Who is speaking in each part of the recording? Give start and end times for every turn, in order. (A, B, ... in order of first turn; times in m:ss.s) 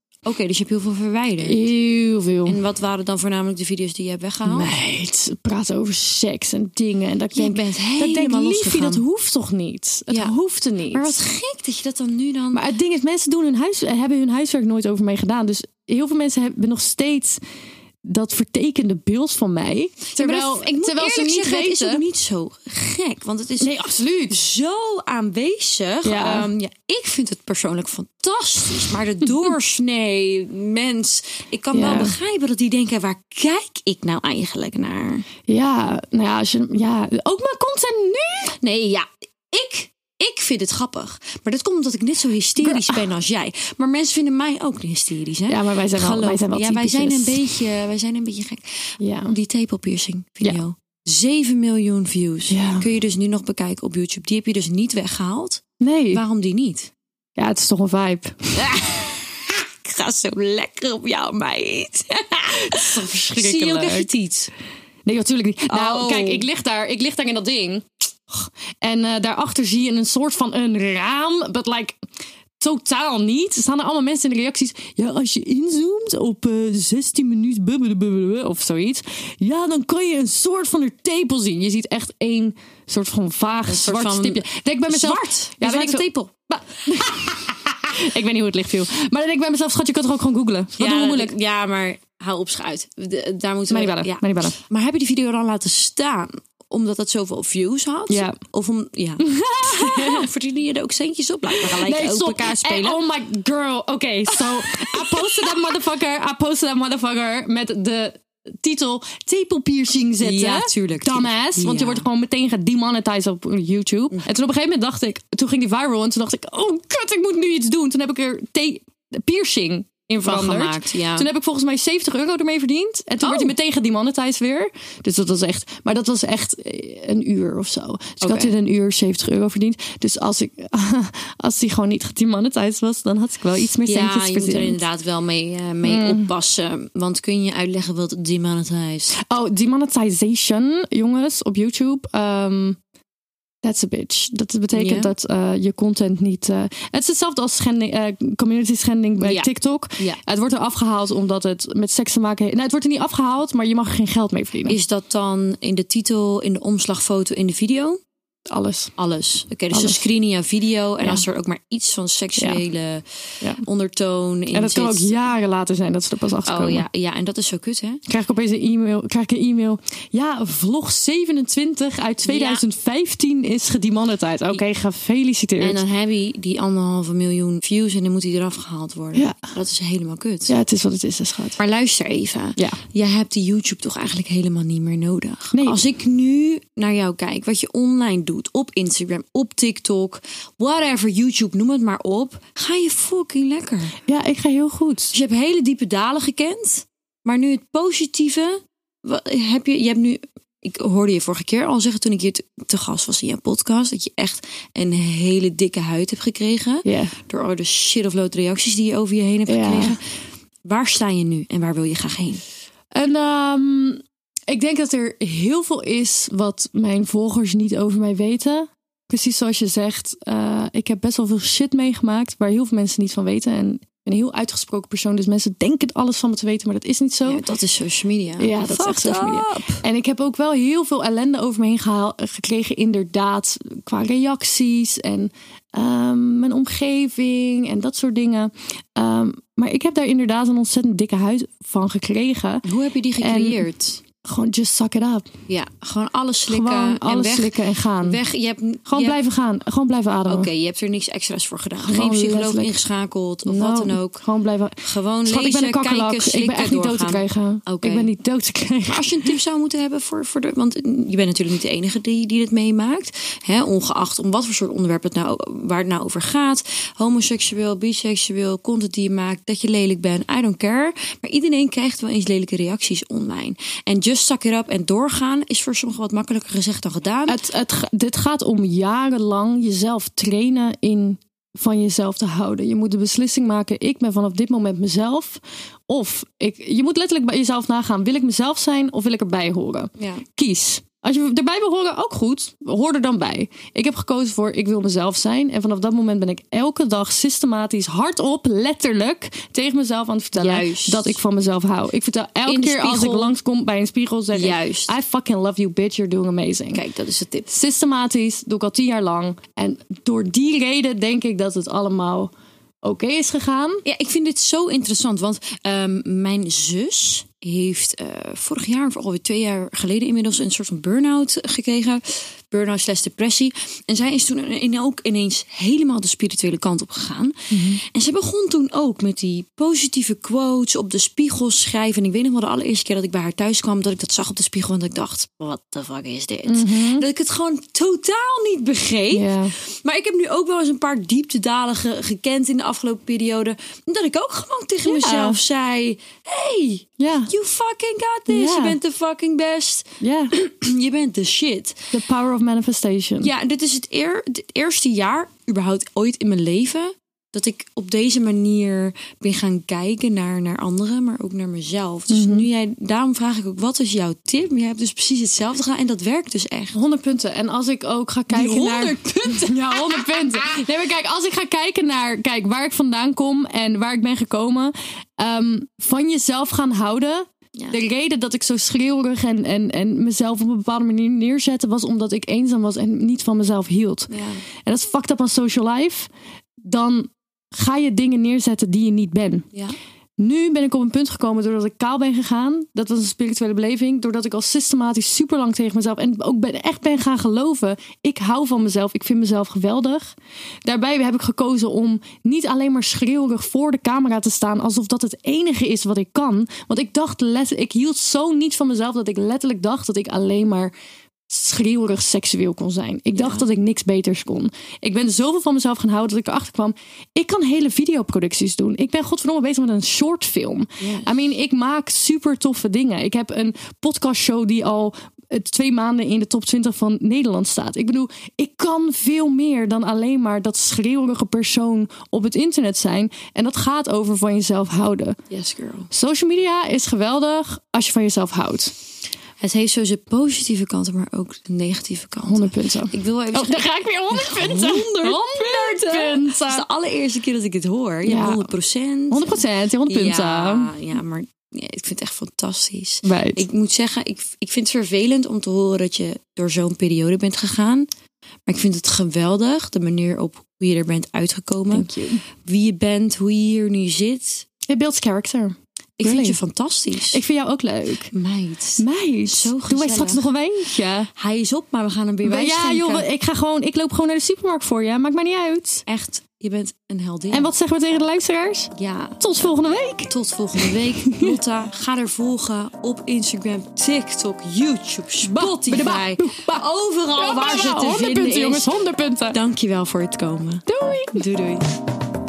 0:00.2-0:01.7 A
0:01.4-0:02.6 B
0:02.4-0:04.7 A
0:04.4-0:11.1 B
0:07.3-0:09.0 A
0:10.9-0:12.6 A
0:12.5-0:17.4 B
0:18.0-0:22.0 B
0:20.1-0:23.7 A
0:23.6-0:24.4 B
0:24.3-0:35.2 A
0:26.0-0:26.5 B
0:31.7-0:32.2 B
0:35.5-0:38.6 B
0:38.6-0:56.9 A
0:42.6-0:43.0 B
0:45.5-0:47.4 B
0:49.0-0:49.4 B
0:52.5-0:52.9 B
0:55.8-0:56.2 B
0:57.4-0:58.7 B
0:58.6-1:04.5 A
1:02.5-1:04.1 B
1:05.0-1:12.0 B
1:05.7-1:06.4 A
1:12.6-1:31.4 B
1:23.6-1:26.3 A
1:30.8-1:43.0 A
1:33.7-1:34.6 B
1:38.1-1:38.4 B
1:39.2-1:40.3 B
1:41.6-2:14.8 B
1:44.4-1:45.6 A
1:50.2-1:52.1 A
2:00.2-2:01.3 A
2:03.2-2:03.5 A
2:08.2-2:08.5 A
2:13.9-2:19.2 A
2:15.8-2:16.3 B
2:19.2-2:22.8 B
2:23.6-2:34.8 B
2:24.7-2:25.1 A
2:29.2-2:30.2 A
2:34.7-2:38.0 A
2:38.4-2:38.9 B
2:39.0-2:45.1 A
2:39.7-2:40.0 B
2:44.5-2:46.9 B
2:46.4-2:48.0 A
2:48.1-2:55.8 B
2:52.2-2:52.6 A
2:55.6-3:00.6 A
2:59.1-2:59.4 B
3:00.5-3:01.6 B
3:01.6-3:14.0 A
3:05.5-3:05.8 B
3:14.1-3:15.1 B
3:15.1-3:30.0 A
3:26.8-3:27.1 B
3:29.5-3:30.0 B
3:30.6-3:32.4 A
3:32.9-3:47.4 B
3:47.2-3:49.8 A
3:48.4-4:02.6 B
4:02.6-4:04.0 A
4:03.2-4:03.7 B
4:04.2-4:05.3 B
4:05.5-4:09.2 A
4:06.5-4:08.2 B
4:08.9-4:10.5 B
4:10.3-4:14.2 A
4:11.8-4:12.8 B
4:13.4-4:19.3 B
4:14.8-4:18.1 A
4:18.9-4:37.4 A
4:37.3-5:06.8 B
4:50.0-4:50.2 A
5:00.4-5:01.2 A
5:02.4-5:03.4 A
5:04.3-5:04.9 A
5:06.7-5:07.5 A
5:07.5-5:13.8 B
5:13.8-5:51.9 A
5:27.5-5:27.8 B
5:36.4-5:37.0 B
5:39.1-5:39.5 B
5:44.8-5:45.4 B
5:47.0-5:47.3 B
5:48.3-5:48.8 B
5:50.0-5:50.3 B
5:51.9-5:53.3 B
5:53.2-6:06.8 A
6:02.1-6:02.5 B
6:06.7-6:24.1 B
6:08.3-6:10.1 A
6:24.1-6:24.4 A
6:24.6-6:29.5 B
6:30.2-6:50.7 B
6:51.3-7:15.2 B
6:53.1-6:53.4 A
7:00.8-7:01.1 A
7:15.3-7:15.9 A
7:15.9-7:18.7 B
7:19.4-7:37.9 A
7:22.2-7:26.6 B
7:28.0-7:28.6 B
7:29.1-7:30.7 B
7:33.0-7:33.4 B
7:38.5-7:44.5 A
7:41.7-7:42.2 B
7:44.7-7:46.4 B
7:46.0-7:47.2 A
7:47.1-7:48.1 B
7:48.1-7:50.3 A
7:48.8-7:51.1 B
7:51.1-7:53.1 A
7:52.2-7:55.8 B
7:55.9-7:57.5 A
7:57.3-8:01.4 B
7:58.7-7:59.2 A
8:00.1-8:08.7 A
8:05.2-8:09.4 B
8:09.3-8:11.8 A
8:10.7-8:11.2 B